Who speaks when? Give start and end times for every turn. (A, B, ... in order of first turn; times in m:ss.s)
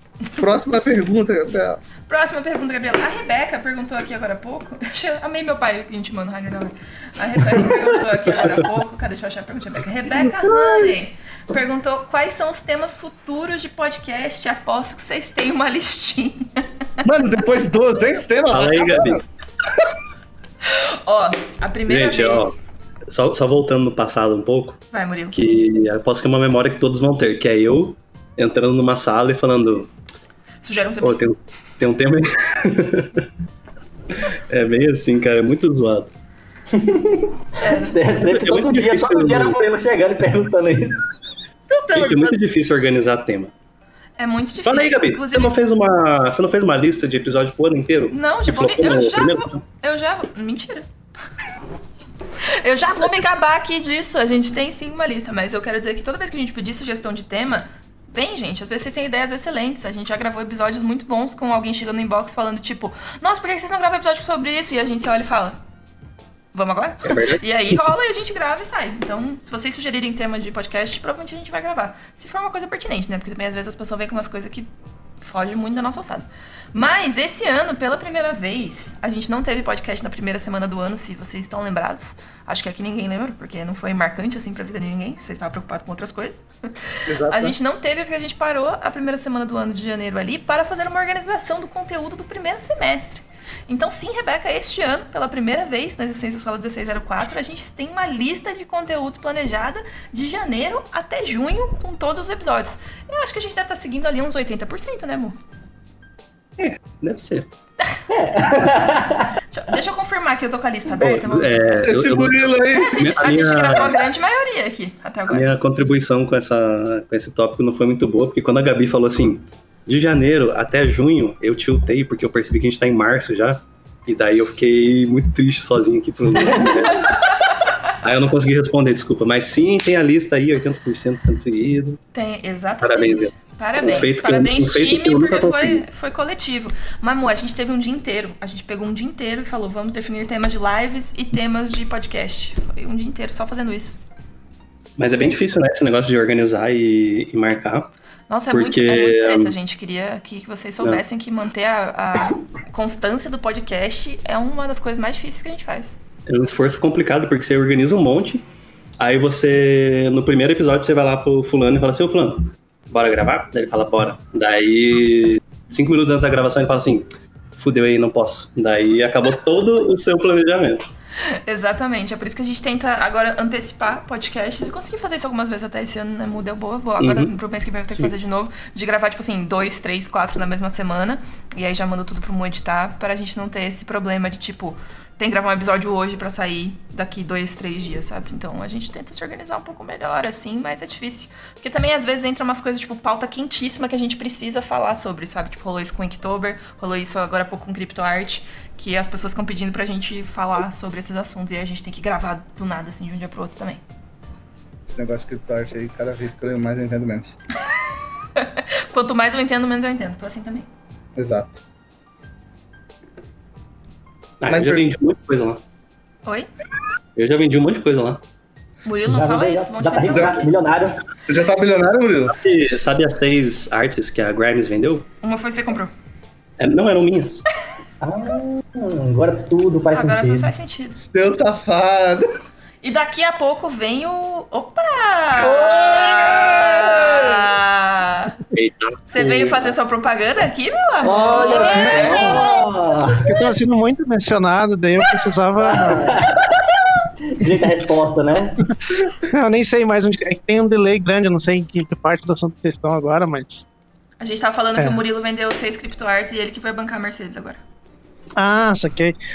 0:00.4-0:01.8 A
0:02.1-0:16.6 B
0:10.2-0:10.9 A
0:17.0-0:19.2 A
0:18.5-0:19.2 C
0:20.6-0:22.6 B
0:21.9-0:22.6 C
0:23.1-0:24.8 C
0:24.9-0:25.4 B
0:25.3-0:29.9 C
0:30.6-0:31.2 B
0:31.0-0:33.2 C
0:34.5-0:36.1 C
0:36.7-0:41.1 D
0:37.6-0:38.0 B
0:38.1-0:39.6 C
0:41.7-0:42.4 A
0:41.9-0:43.5 C
0:44.2-0:45.5 B
0:44.6-0:49.6 C
0:48.1-0:50.8 B
0:52.6-1:05.6 B
1:06.5-1:14.7 B
1:07.0-1:07.4 C
1:15.2-1:26.4 B
1:27.1-1:27.5 A
1:27.2-1:45.4 B
1:46.6-1:47.5 C
1:48.1-1:49.3 D
1:49.5-1:51.9 B
1:51.0-1:54.0 C
1:51.8-1:53.0 A
1:52.7-1:55.5 B
1:55.3-2:07.2 C
2:08.0-2:12.0 C
2:12.1-2:24.0 B
2:12.8-2:15.8 C
2:25.0-2:27.9 C
2:28.3-2:36.0 B
2:28.5-2:29.5 C
2:36.3-2:38.4 C
2:39.0-2:50.8 C
2:51.3-3:23.8 B
2:57.0-2:57.4 C
3:24.9-3:27.4 A
3:28.4-3:30.7 B
3:31.2-3:31.6 A
3:34.4-3:35.6 C
3:34.5-3:34.9 A
3:37.2-3:38.2 C
3:38.8-3:40.5 B
3:39.0-3:41.0 D
3:40.0-3:40.4 A
3:41.3-3:42.3 A
3:42.3-3:45.0 C
3:45.2-3:45.9 B
3:46.6-3:47.4 C
3:48.0-3:50.5 D
3:49.9-3:51.0 B
3:51.0-3:52.3 A
3:52.8-3:58.4 B
3:55.4-3:57.5 A
3:58.5-3:59.7 C
3:59.1-4:02.7 B
4:01.0-4:03.3 D
4:01.1-4:02.6 A
4:01.7-4:02.5 E
4:03.2-4:06.2 E
4:05.6-4:08.6 D
4:09.2-4:13.6 E
4:14.2-4:17.6 B
4:14.8-4:15.0 E
4:18.4-4:19.2 E